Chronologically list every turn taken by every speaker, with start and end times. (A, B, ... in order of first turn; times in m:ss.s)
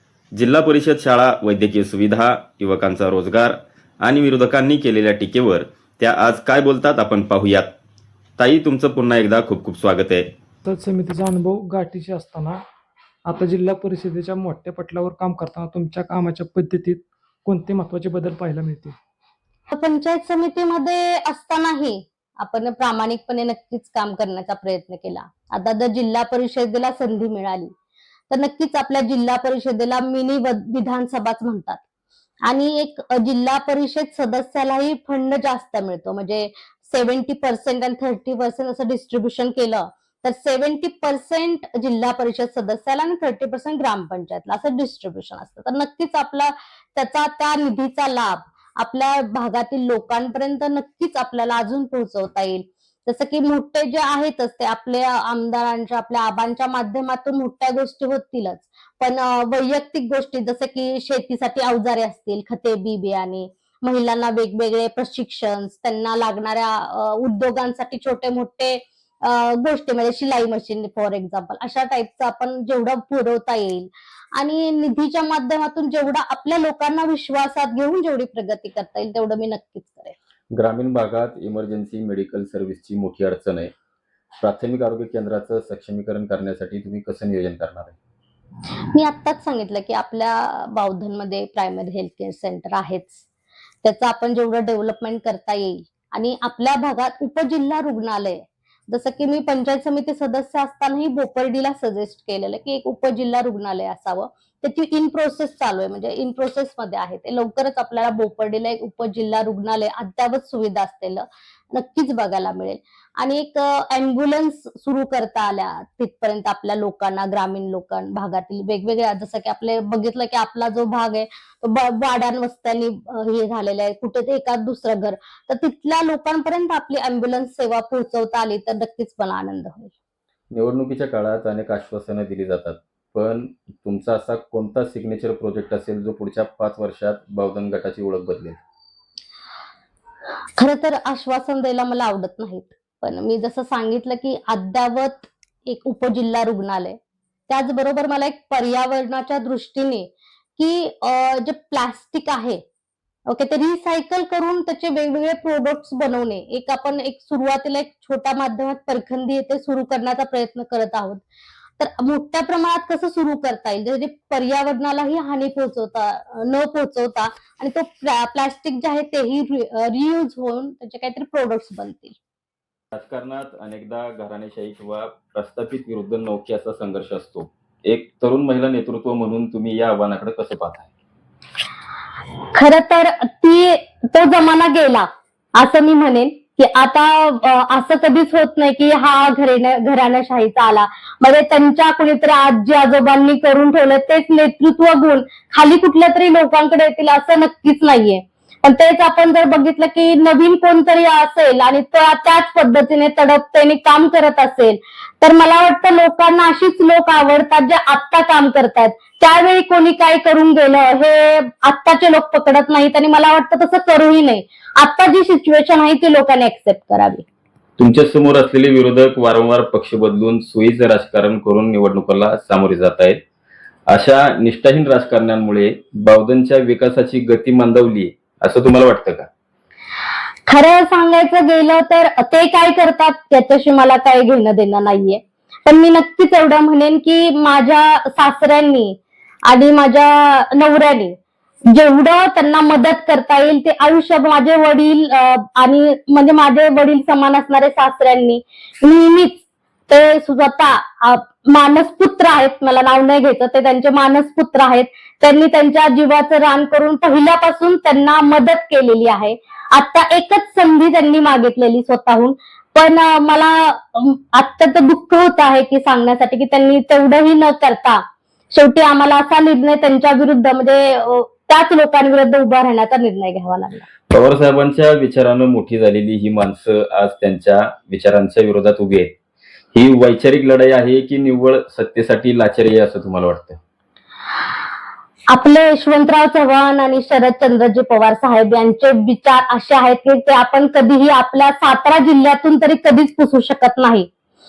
0:00.3-0:07.7 A
0:08.4-0:10.3 A
0:10.6-0:12.6 B
0:13.3-0:19.0 B
0:19.7-0:27.7 C
0:28.3-0:31.8 C
0:32.5-1:20.1 C
1:20.5-1:23.7 A
1:24.4-1:28.0 A
1:28.9-1:33.3 C
1:33.8-2:09.9 C
2:10.5-2:18.6 A
2:20.6-2:27.0 C
2:27.5-2:32.6 C
2:33.3-2:41.2 C
2:41.8-2:52.2 C
2:52.9-3:00.9 A
3:02.5-3:05.1 C
3:05.6-3:37.2 C
3:37.8-3:43.2 A
3:43.9-3:49.3 A
3:50.5-4:01.2 C
4:01.7-4:33.8 C
4:34.1-4:39.1 A
4:39.7-4:43.6 A
4:45.3-4:54.1 C